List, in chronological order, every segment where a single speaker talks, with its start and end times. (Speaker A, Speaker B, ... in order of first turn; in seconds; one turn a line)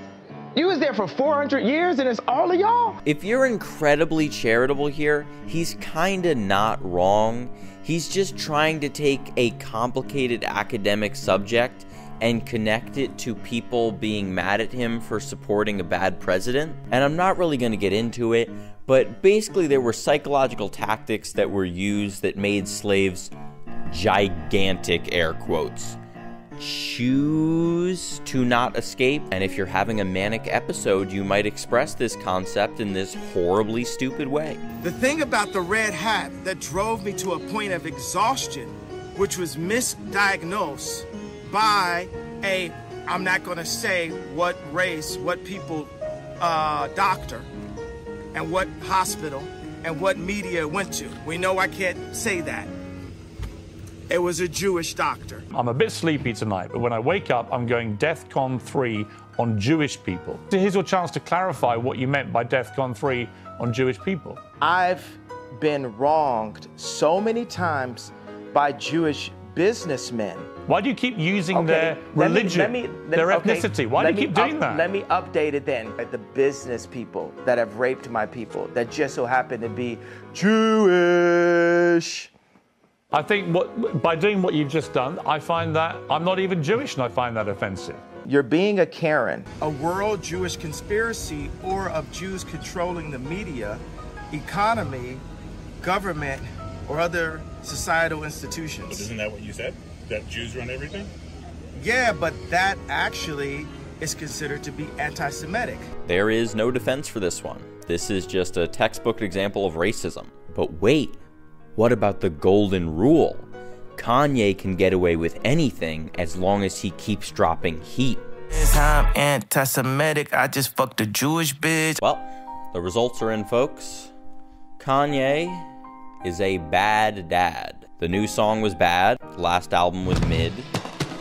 Speaker A: 0.6-3.0
Speaker B: 3.0-23.3
Speaker B: 23.9-26.0
Speaker B: 26.6-34.6
Speaker C: 34.8-47.5
Speaker C: 48.3-52.7
Speaker C: 54.1-55.4
Speaker D: 55.5-64.4
Speaker A: 64.6-70.5
Speaker D: 70.7-74.9
Speaker A: 71.5-82.3
Speaker D: 83.1-88.0
Speaker A: 88.2-89.6
Speaker C: 89.6-95.2
Speaker C: 95.8-99.0
Speaker A: 97.0-98.6
Speaker E: 98.9-101.1
Speaker C: 101.8-105.9
Speaker B: 106.0-111.2
Speaker B: 111.8-118.2
Speaker C: 118.5-122.0
Speaker A: 119.5-120.0
Speaker B: 122.0-124.1
Speaker B: 124.8-125.7
Speaker B: 126.2-130.7